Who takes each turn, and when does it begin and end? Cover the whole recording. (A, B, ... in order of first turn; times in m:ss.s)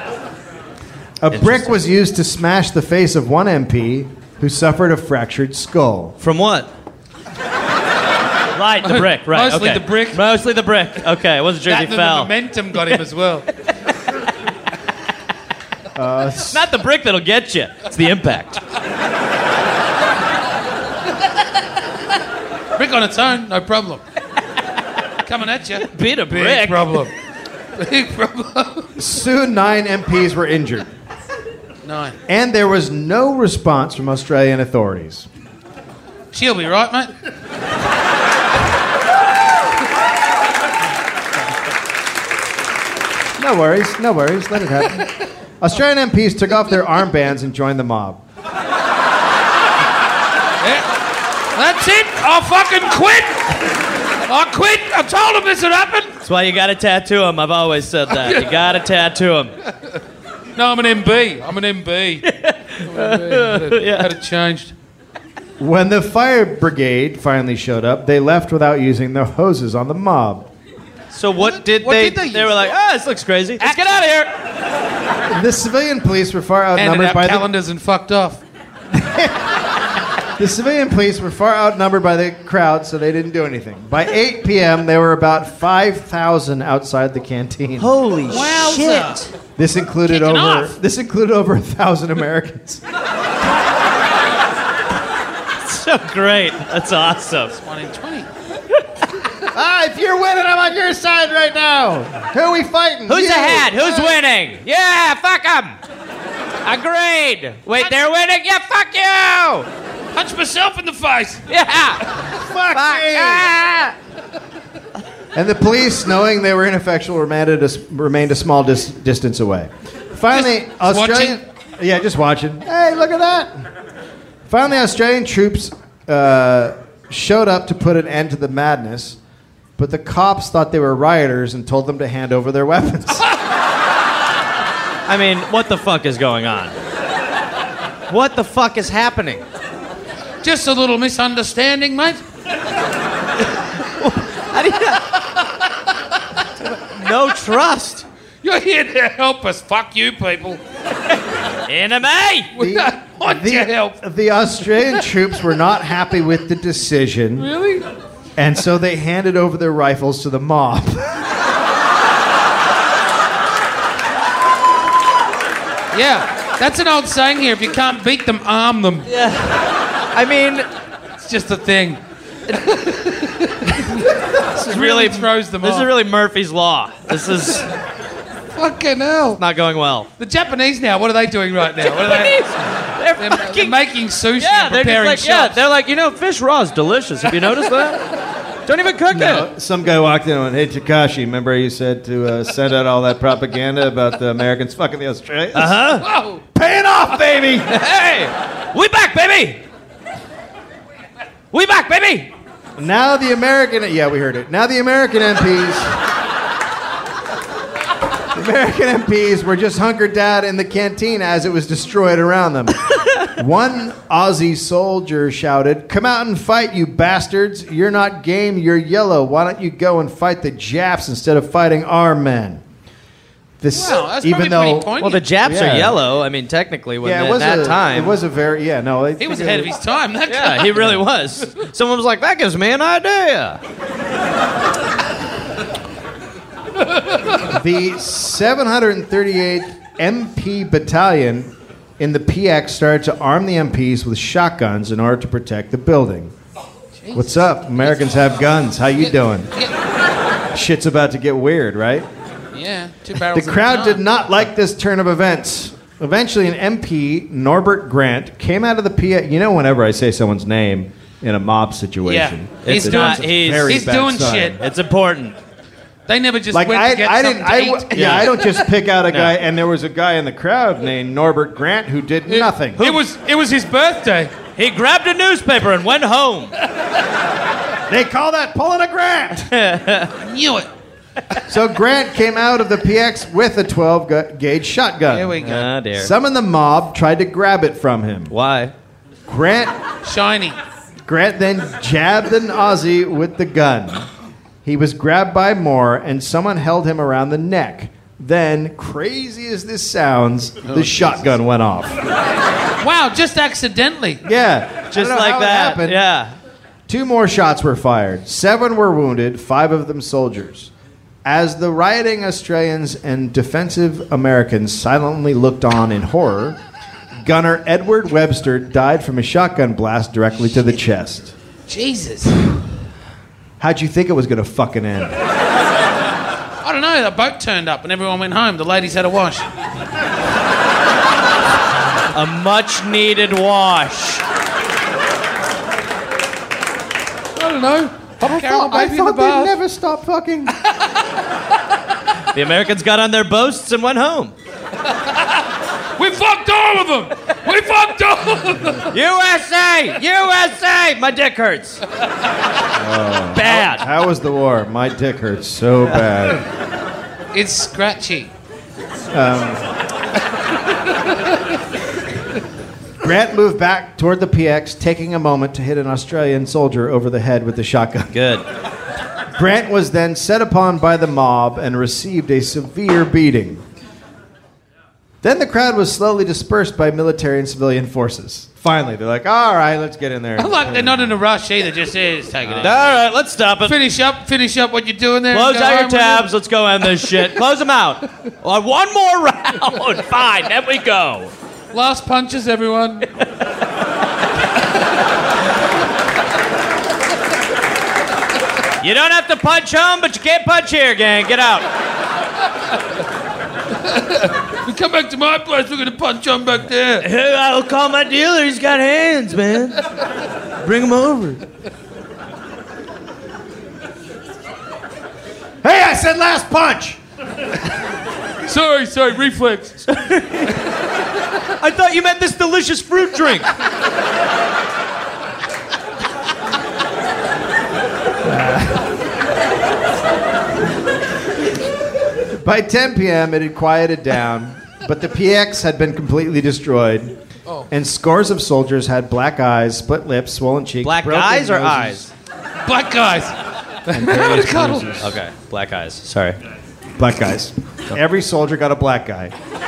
0:01.2-0:06.2 A
0:01.3-0:01.8 B
0:06.2-0:06.7 B
0:08.5-0:12.3 B
0:08.8-0:10.2 C
0:11.6-0:13.5 C
0:15.9-0:16.7 A
0:16.5-0:18.6 B
0:22.8-0:24.0 C
0:25.2-0:27.1 C
0:25.8-0:27.1 B
0:27.8-0:28.9 C
0:29.0-0:30.9 A
0:31.8-0:32.2 C
0:32.3-0:35.3 A
0:36.3-0:37.1 C
0:43.4-0:48.2 A
0:50.6-0:50.9 C
0:51.5-0:53.6 C
0:54.2-0:56.2 C
0:56.2-0:59.5 B
0:58.2-0:58.5 C
1:00.5-1:02.2 C
1:02.2-1:04.1 B
1:02.8-1:04.7 C
1:05.6-1:10.5 A
1:11.1-1:14.3 B
1:11.4-1:12.6 C
1:13.6-1:14.0 C
1:15.3-1:17.5 A
1:16.8-1:18.4 C
1:18.9-1:19.6 A
1:20.4-1:27.9 A
1:27.8-1:29.3 B
1:28.3-1:29.3 C
1:29.6-1:32.8 A
1:30.1-1:30.8 C
1:35.6-1:37.5 B
1:37.5-1:38.3 C
1:39.5-1:44.2 A
1:43.1-1:45.8 B
1:46.6-1:49.7 B
1:50.1-1:51.4 C
1:51.5-1:53.9 B
1:52.3-1:53.5 A
1:55.3-2:03.7 A
2:00.3-2:01.4 C
2:04.5-2:09.2 A
2:09.8-2:13.2 A
2:15.1-2:16.7 B
2:18.1-2:19.4 B
2:20.4-2:22.2 C
2:23.9-2:25.2 B
2:26.8-2:28.0 B
2:28.4-2:30.6 C
2:31.6-2:32.5 B
2:32.6-2:34.0 C
2:32.6-2:37.5 A
2:37.4-2:37.8 C
2:38.4-2:41.3 A
2:45.9-2:49.1 C
2:49.1-2:50.7 B
2:51.2-2:55.9 C
2:54.5-2:57.7 B
2:58.5-2:59.4 C
2:59.4-3:00.1 B
3:00.2-3:02.4 C
3:01.8-3:03.8 B
3:03.2-3:05.6 C
3:04.4-3:08.1 B
3:08.6-3:09.5 B
3:09.1-3:15.8 A
3:15.5-3:16.1 B
3:16.0-3:16.4 C
3:16.5-3:17.7 A
3:17.7-3:19.6 B
3:21.5-3:22.3 B
3:22.8-3:26.0 A
3:28.3-3:42.6 A
3:43.6-3:46.0 A
3:43.7-3:45.2 C
3:45.0-3:48.2 B
3:47.0-3:49.7 A
3:49.2-3:50.9 C
3:50.3-3:53.6 B
3:57.4-4:06.3 A
4:07.0-4:08.2 C
4:07.1-4:09.5 A
4:10.5-4:12.1 A
4:12.5-4:14.0 C
4:13.3-4:24.6 A
4:22.0-4:24.6 C
4:22.6-4:23.9 B
4:24.6-4:25.4 B
4:26.1-4:28.6 C
4:26.5-4:32.8 A
4:27.9-4:28.3 B
4:29.1-4:29.4 B
4:32.3-4:34.3 C
4:34.6-4:36.5 B
4:37.9-4:39.5 A
4:39.5-4:40.1 B
4:40.2-4:40.7 C
4:41.5-4:48.3 A
4:45.1-4:45.7 C
4:45.4-4:46.1 B
4:48.3-4:48.7 B
4:49.3-4:49.8 A
4:50.0-4:50.6 C
4:51.0-4:54.1 A
4:54.6-5:02.0 A
5:00.6-5:01.1 C
5:02.8-5:04.2 C
5:04.2-5:06.0 A
5:04.9-5:06.3 B
5:06.9-5:10.7 A
5:11.2-5:16.6 A
5:17.2-5:21.3 A
5:21.7-5:22.4 C
5:23.6-5:25.2 A
5:26.6-5:29.5 C
5:32.1-5:34.2 B
5:37.4-5:39.5 C
5:38.2-5:40.5 A
5:42.3-5:44.3 B
5:46.0-5:48.9 C
5:48.9-5:51.8 B
5:52.7-5:56.4 A
5:53.3-5:53.8 B
5:57.3-5:58.3 C
5:59.1-5:59.6 A
6:03.0-6:08.1 A
6:08.1-6:08.4 B
6:09.3-6:13.6 A
6:15.2-6:21.2 A
6:20.4-6:22.9 C
6:22.4-6:22.7 A
6:22.6-6:23.8 B
6:23.6-6:26.3 C
6:25.3-6:31.3 B
6:31.7-6:33.1 C
6:38.8-6:41.7 B
6:43.8-6:47.1 C
6:47.0-6:49.8 B
6:50.6-6:51.4 B
6:55.6-6:57.0 A
6:58.4-6:59.8 C
6:59.9-7:00.7 B
7:01.4-7:03.5 B
7:08.2-7:08.9 A
7:12.3-7:17.2 A
7:17.7-7:22.1 A
7:20.8-7:22.1 B
7:22.6-7:24.9 C
7:23.9-7:25.2 A
7:25.0-7:26.4 B
7:27.0-7:29.3 A